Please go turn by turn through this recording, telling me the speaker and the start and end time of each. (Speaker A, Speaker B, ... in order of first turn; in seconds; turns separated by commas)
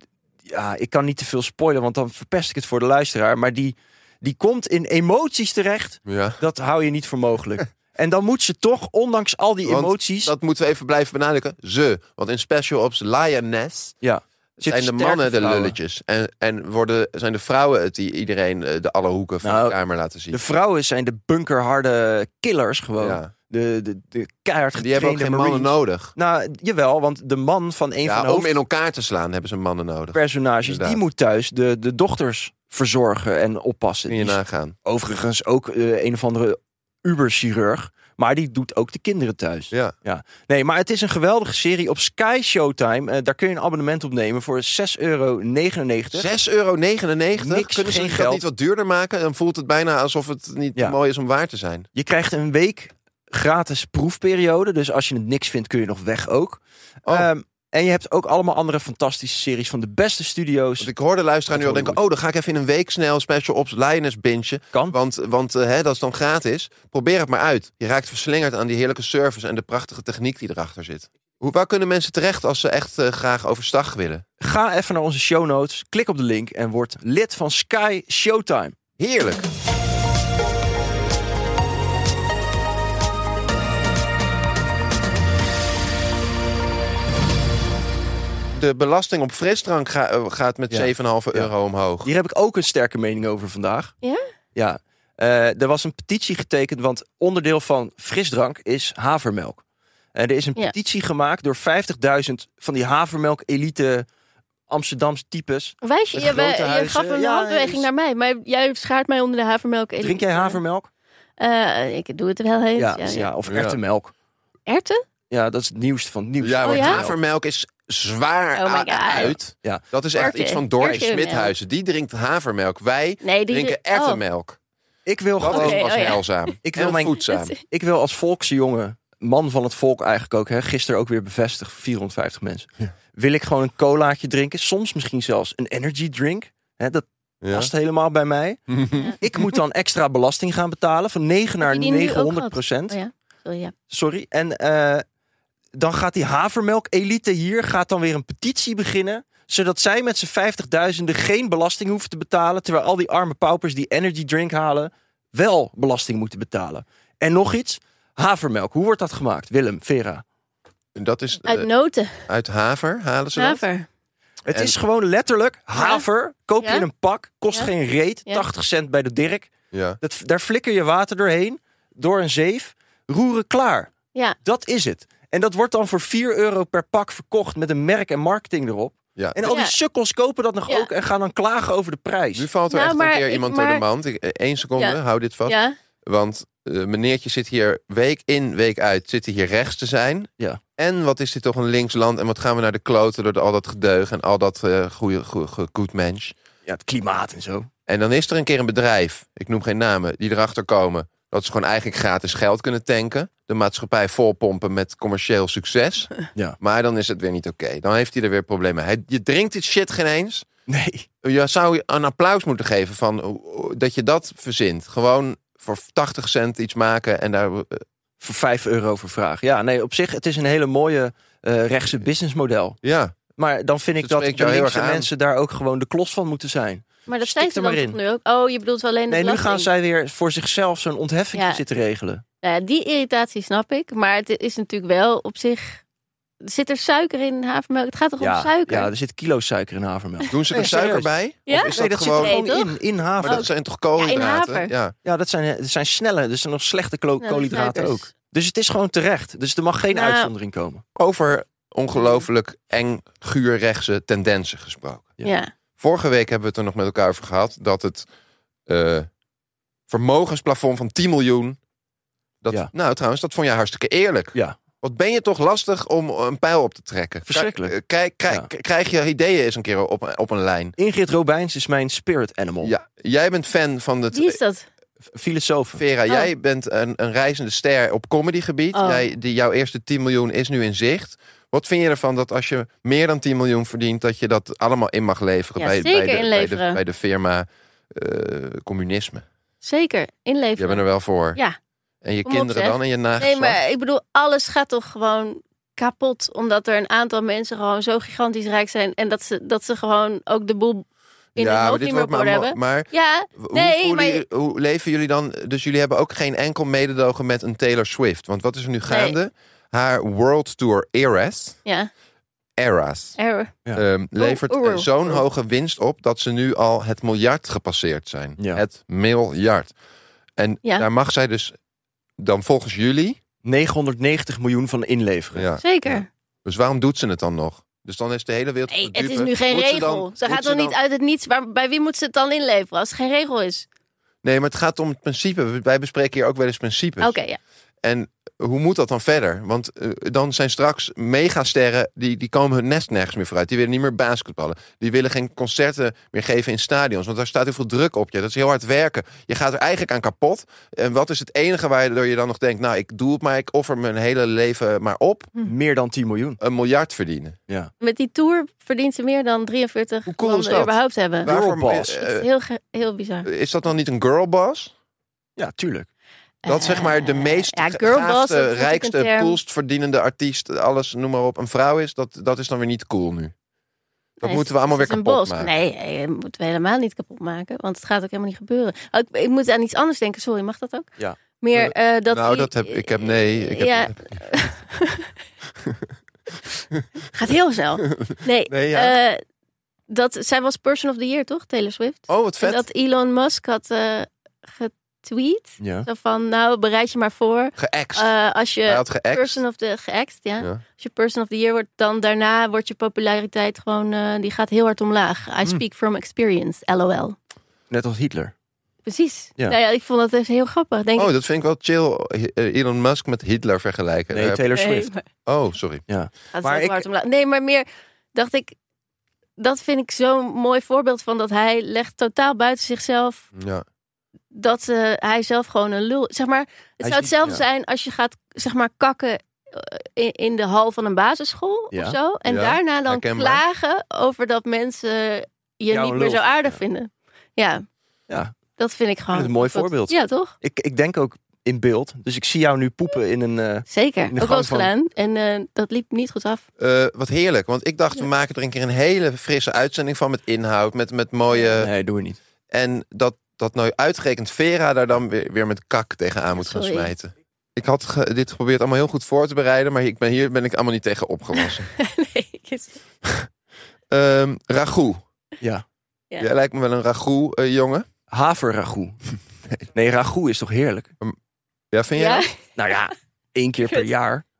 Speaker A: 0.5-10.3, Speaker B: 6.0-6.4, Speaker B: 9.6-13.9, Speaker A: 14.0-15.8, Speaker B: 14.7-20.4, Speaker A: 19.4-19.8, Speaker A: 20.3-28.5, Speaker B: 23.0-23.3, Speaker B: 24.7-26.1, Speaker B: 28.0-31.0, Speaker A: 30.1-46.3, Speaker B: 34.1-34.8, Speaker B: 46.1-51.9, Speaker A: 47.3-48.4, Speaker A: 51.9-60.9, Speaker B: 60.8-74.2, Speaker A: 61.5-62.0, Speaker A: 74.4-78.8, Speaker B: 79.0-79.5, Speaker B: 88.5-92.1, Speaker A: 90.7-93.9, Speaker A: 94.5-99.6, Speaker A: 100.1-104.1, Speaker A: 104.7-107.9, Speaker C: 105.8-110.6, Speaker A: 110.0-110.9, Speaker C: 111.4-113.3, Speaker A: 112.8-114.1, Speaker B: 113.5-113.8, Speaker C: 114.7-115.0, Speaker A: 115.3-117.2, Speaker B: 116.4-124.6, Speaker C: 116.6-117.0, Speaker C: 118.5-119.3, Speaker A: 119.6-120.4, Speaker C: 120.2-121.5, Speaker C: 123.2-124.2, Speaker A: 125.0-125.9, Speaker C: 125.4-126.5, Speaker B: 125.4-127.5, Speaker A: 126.6-138.6, Speaker C: 127.3-127.6, Speaker B: 137.4-137.7, Speaker B: 138.7-139.1, Speaker A: 139.2-143.0, Speaker C: 141.6-143.7, Speaker A: 143.9-145.0, Speaker A: 145.7-160.2, Speaker B: 160.9-161.7, Speaker C: 161.4-162.2, Speaker B: 162.2-163.6, Speaker C: 163.3-163.8, Speaker A: 164.5-173.9, Speaker B: 164.5-164.7, Speaker C: 165.8-166.1, Speaker C: 166.6-166.8, Speaker B: 169.7-170.0, Speaker A: 174.4-182.5, Speaker C: 179.5-179.8, Speaker B: 182.3-196.3, Speaker C: 182.7-183.8, Speaker C: 184.8-185.8, Speaker A: 196.7-197.7, Speaker B: 197.9-210.5, Speaker A: 210.7-211.1, Speaker B: 211.2-217.8, Speaker A: 218.2-222.8, Speaker B: 222.8-223.2, Speaker A: 223.4-228.0, Speaker B: 224.0-225.1, Speaker C: 227.1-229.7, Speaker A: 229.1-232.2, Speaker C: 231.3-231.6, Speaker C: 232.4-235.8, Speaker C: 236.4-238.9, Speaker A: 238.2-241.1, Speaker B: 240.3-242.4, Speaker C: 241.5-244.7, Speaker A: 241.7-243.5, Speaker B: 243.2-244.9, Speaker A: 245.0-250.8, Speaker C: 247.2-248.1, Speaker C: 249.9-250.3, Speaker B: 250.9-255.1, Speaker C: 252.0-252.2, Speaker C: 255.2-255.5, Speaker B: 255.8-258.1, Speaker B: 258.7-259.1, Speaker B: 259.9-261.6, Speaker B: 262.4-270.7, Speaker A: 267.3-267.8, Speaker A: 270.8-272.7, Speaker B: 272.6-274.4, Speaker C: 274.1-274.6, Speaker A: 275.1-275.8, Speaker B: 275.8-289.2, Speaker C: 278.7-279.0, Speaker C: 285.6-286.8, Speaker C: 289.6-291.6, Speaker B: 290.6-291.4, Speaker B: 292.0-293.6, Speaker C: 292.2-300.8, Speaker C: 301.4-304.2, Speaker B: 301.4-311.6, Speaker C: 308.9-309.1, Speaker B: 312.6-313.2, Speaker C: 313.2-313.5, Speaker B: 313.7-319.7, Speaker C: 314.2-315.2, Speaker A: 318.4-318.6, Speaker B: 320.4-321.6, Speaker B: 322.2-323.2, Speaker A: 323.4-325.5, Speaker B: 325.3-330.8, Speaker C: 325.6-326.1, Speaker C: 328.7-333.6, Speaker B: 334.2-337.1, Speaker C: 337.0-337.4, Speaker B: 337.8-355.3, Speaker A: 355.4-356.4, Speaker B: 356.4-357.4, Speaker C: 357.8-363.3, Speaker B: 360.1-362.3, Speaker A: 361.2-361.9, Speaker B: 363.2-364.7, Speaker A: 365.4-365.9, Speaker C: 366.4-369.4, Speaker B: 366.5-373.3, Speaker B: 374.2-375.5, Speaker C: 374.2-385.1, Speaker B: 381.5-384.1, Speaker C: 387.1-389.2, Speaker B: 387.9-388.9, Speaker C: 389.9-407.1, Speaker B: 392.1-392.6, Speaker A: 395.6-395.9, Speaker B: 397.6-398.1, Speaker B: 398.6-399.4, Speaker A: 407.7-408.3, Speaker C: 408.9-411.1, Speaker B: 410.9-414.4, Speaker A: 414.1-414.9, Speaker C: 414.5-415.0, Speaker B: 415.2-415.8, Speaker A: 415.9-416.8, Speaker C: 416.3-418.5, Speaker C: 419.4-423.2, Speaker B: 423.3-423.6, Speaker C: 424.3-437.6, Speaker A: 426.8-427.4, Speaker A: 431.7-432.0, Speaker B: 432.2-433.4, Speaker A: 435.7-436.6, Speaker A: 438.1-438.3, Speaker C: 438.6-440.3, Speaker A: 439.1-444.7, Speaker C: 443.7-446.4, Speaker B: 446.6-451.7, Speaker A: 451.6-452.2, Speaker B: 452.5-461.7, Speaker C: 456.4-456.9, Speaker C: 461.4-462.8, Speaker B: 463.9-465.0, Speaker B: 466.2-467.9, Speaker A: 468.1-469.0, Speaker A: 469.7-470.9, Speaker B: 471.7-472.3, Speaker C: 471.9-472.4, Speaker A: 472.6-474.2